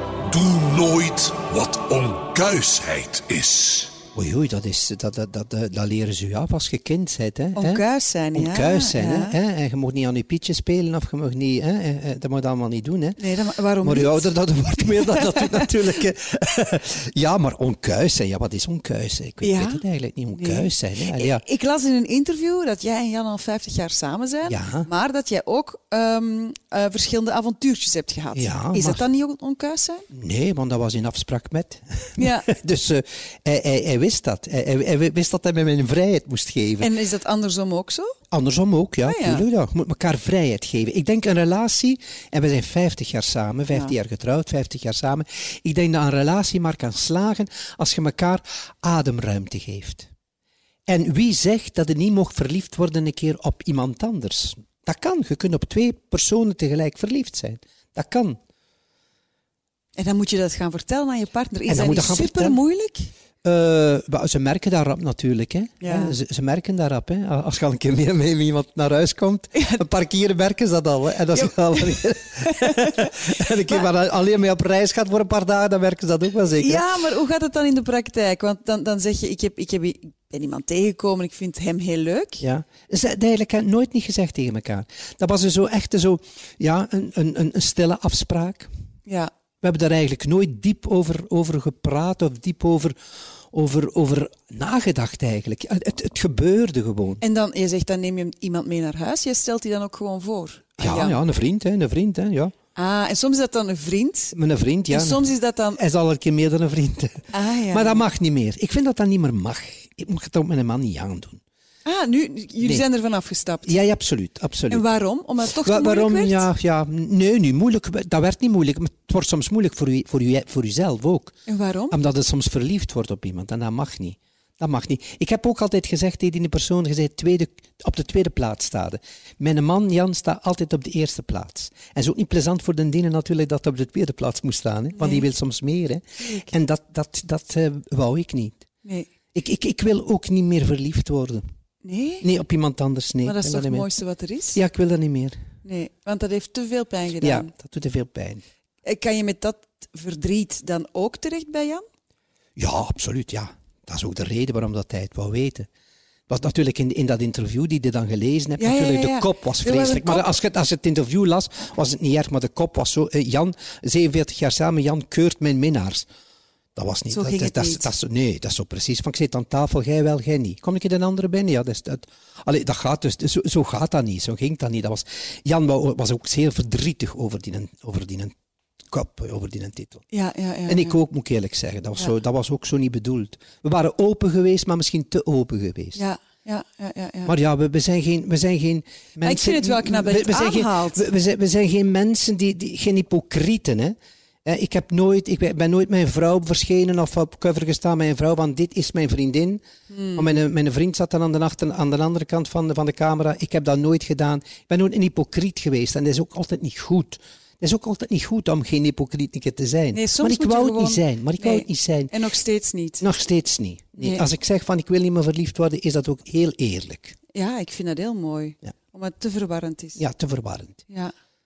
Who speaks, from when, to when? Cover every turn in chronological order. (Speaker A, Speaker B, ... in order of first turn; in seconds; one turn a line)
Speaker A: 0.3-4.0
Speaker B: 4.1-13.2
Speaker C: 7.5-9.3
Speaker C: 13.2-15.7
Speaker B: 13.8-21.4
Speaker C: 19.4-30.1
Speaker B: 24.4-24.9
Speaker B: 28.3-29.0
Speaker B: 30.1-36.9
Speaker C: 32.2-32.5
Speaker C: 36.8-38.1
Speaker B: 38.3-50.1
Speaker C: 39.0-39.4
Speaker B: 50.9-58.4
Speaker C: 60.0-63.1
Speaker B: 61.7-62.6
Speaker B: 63.4-76.8
Speaker C: 65.8-66.2
Speaker C: 69.5-69.8
Speaker C: 71.3-73.8
Speaker C: 76.5-82.4
Speaker B: 82.4-88.7
Speaker C: 89.0-89.3
Speaker B: 89.6-93.0
Speaker B: 93.5-97.2
Speaker C: 97.2-101.2
Speaker B: 100.8-102.5
Speaker C: 102.8-104.3
Speaker B: 104.3-111.4
Speaker C: 104.9-105.8
Speaker C: 107.3-108.0
Speaker C: 111.8-113.8
Speaker B: 112.6-112.8
Speaker B: 113.7-114.9
Speaker C: 114.7-116.5
Speaker B: 115.5-121.3
Speaker C: 121.5-122.0
Speaker B: 121.9-138.7
Speaker C: 134.9-135.2
Speaker C: 136.2-136.5
Speaker C: 138.8-139.1
Speaker B: 139.3-141.4
Speaker C: 141.8-142.3
Speaker B: 142.2-143.9
Speaker C: 143.2-144.6
Speaker B: 144.5-145.4
Speaker C: 145.6-147.5
Speaker B: 147.2-148.4
Speaker C: 148.8-151.8
Speaker B: 152.6-155.7
Speaker B: 156.3-166.1
Speaker C: 158.6-160.3
Speaker B: 166.7-178.3
Speaker C: 167.1-167.9
Speaker B: 178.9-180.0
Speaker C: 180.1-181.0
Speaker B: 180.7-186.0
Speaker C: 185.9-187.3
Speaker B: 187.2-199.6
Speaker C: 189.2-191.0
Speaker C: 199.9-200.4
Speaker B: 200.1-212.1
Speaker C: 209.9-213.0
Speaker B: 213.0-217.2
Speaker C: 214.0-214.2
Speaker C: 217.3-220.0
Speaker B: 220.0-220.8